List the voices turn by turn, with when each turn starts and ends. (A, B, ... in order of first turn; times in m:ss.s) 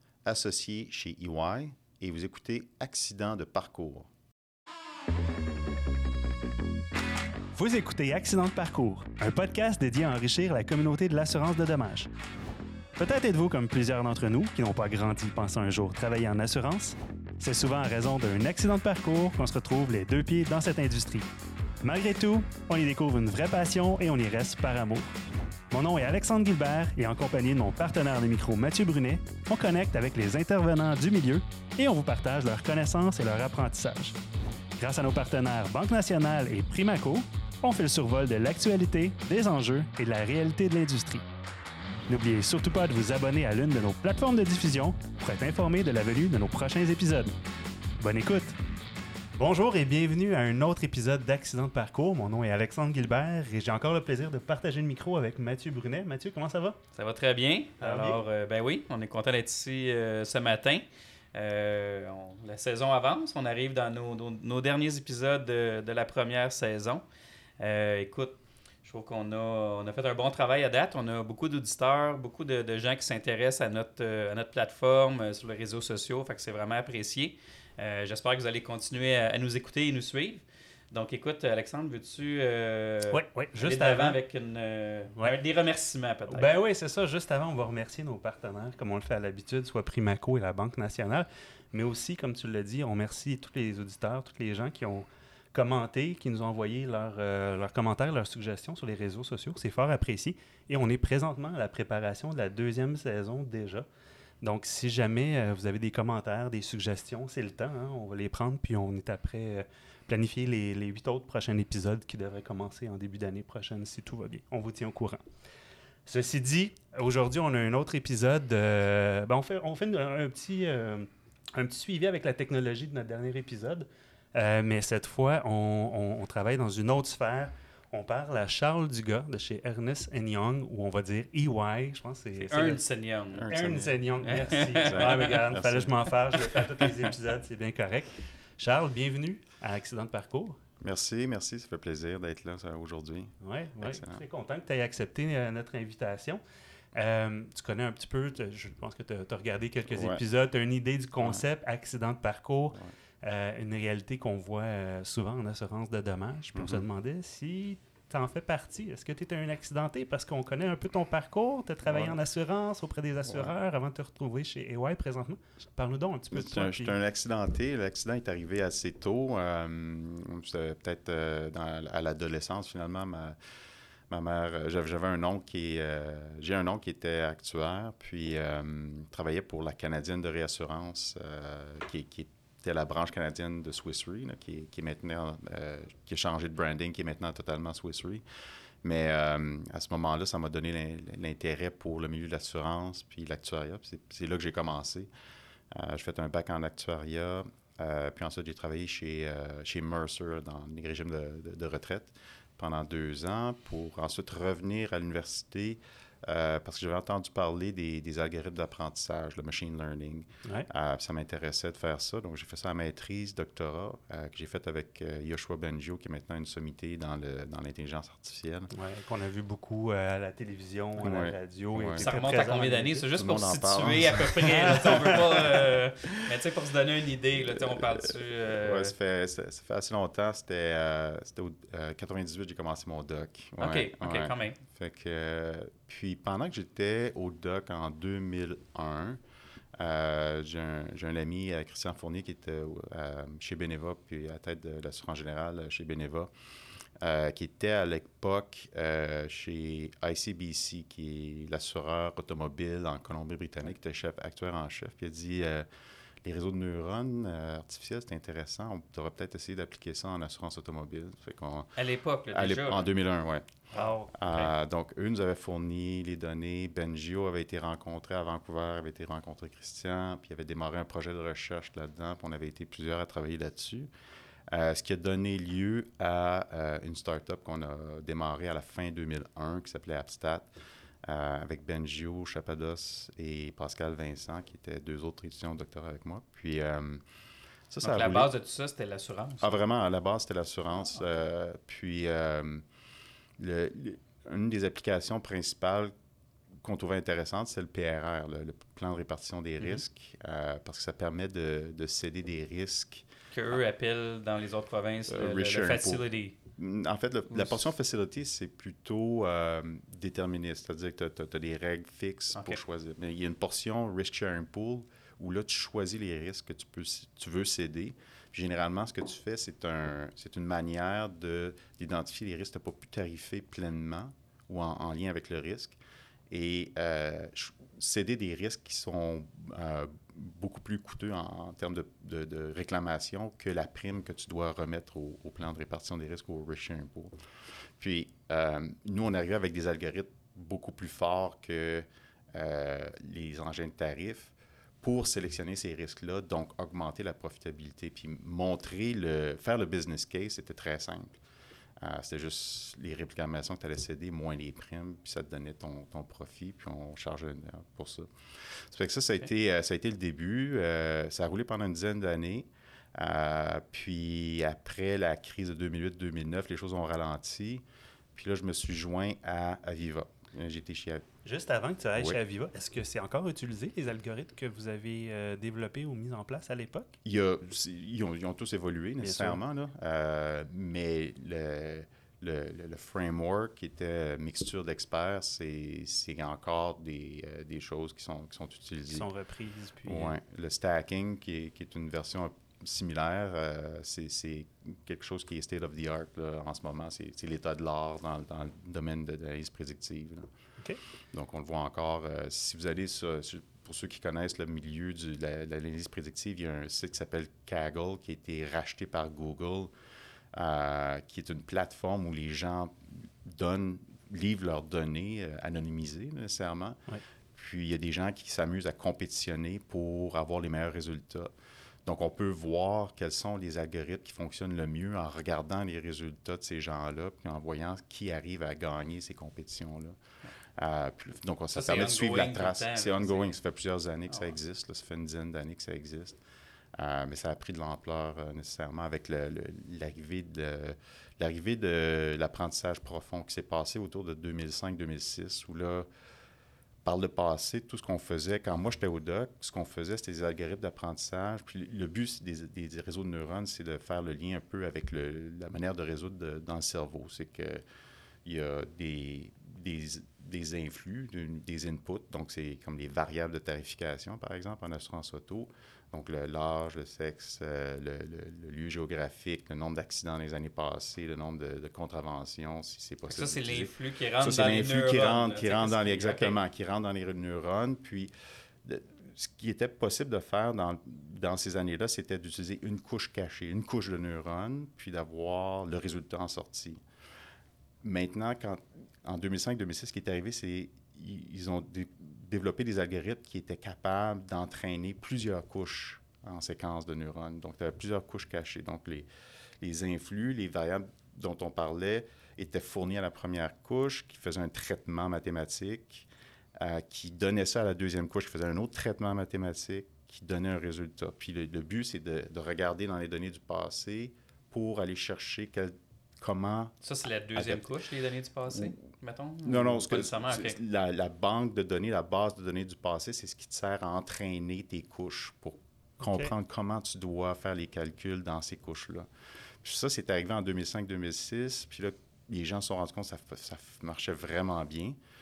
0:00.2-0:04.1 A
0:07.5-0:12.1 B
0:13.0-0:21.3 B
0:21.8-0:25.1 B
0:25.7-0:34.2 B
0:34.8-0:41.2 B
0:42.1-0:47.3 B
0:48.0-0:48.6 B
0:49.3-0:56.8 B
0:57.0-1:07.0 C
0:57.8-0:58.2 B
1:07.6-1:26.5 C
1:23.1-1:24.2 B
1:26.3-1:43.8 B
1:44.4-1:55.2 B
1:56.0-2:12.8 B
2:12.4-2:13.6 C
2:13.3-2:14.0 A
2:13.5-2:20.6 B
2:14.2-2:15.5 C
2:14.8-2:16.0 A
2:16.4-2:16.8 C
2:20.8-2:24.2 A
2:23.4-2:26.4 B
2:26.9-2:47.0 B
2:29.9-2:30.2 A
2:36.5-2:36.8 A
2:41.8-2:42.2 A
2:43.2-2:43.5 A
2:46.3-2:53.4 A
2:54.1-3:08.2 A
3:08.8-3:15.1 A
3:15.7-3:38.7 A
3:38.7-3:43.1 B
3:41.0-3:42.1 A
3:42.0-3:48.9 C
3:43.2-3:46.2 A
3:44.5-3:45.2 B
3:47.4-3:59.2 A
3:53.6-3:54.6 C
3:59.8-4:06.3 A
4:07.0-4:15.6 A
4:16.2-4:21.8 A
4:21.8-4:22.9 C
4:22.3-4:23.5 A
4:23.7-4:24.5 C
4:23.7-4:24.1 B
4:24.1-4:33.9 A
4:34.5-4:40.5 A
4:41.0-4:47.0 A
4:47.7-4:48.3 A
4:47.8-4:49.6 C
4:49.4-4:52.6 A
4:53.4-4:55.9 A
4:56.6-5:03.0 A
5:03.3-5:06.4 C
5:05.1-5:25.8 A
5:07.3-5:07.6 C
5:26.3-5:37.1 A
5:37.8-5:51.2 A
5:51.8-6:07.6 A
6:08.1-6:11.0 A
6:11.2-6:16.9 B
6:17.0-6:29.1 A
6:19.0-6:19.4 B
6:28.9-6:30.2 B
6:29.8-6:40.3 A
6:41.1-6:49.7 A
6:50.3-6:56.8 A
6:57.3-7:01.3 A
7:01.8-7:10.0 A
7:10.6-7:16.2 A
7:11.5-7:13.4 C
7:16.7-7:25.8 A
7:26.8-7:37.6 A
7:38.2-7:58.1 A
7:53.1-7:56.4 C
7:58.6-8:06.8 A
8:07.8-8:19.1 A
8:19.6-8:36.7 A
8:36.8-8:40.6 C
8:37.3-8:37.7 A
8:38.5-8:38.8 A
8:39.4-8:49.0 A
8:46.0-8:46.3 B
8:49.6-8:55.0 A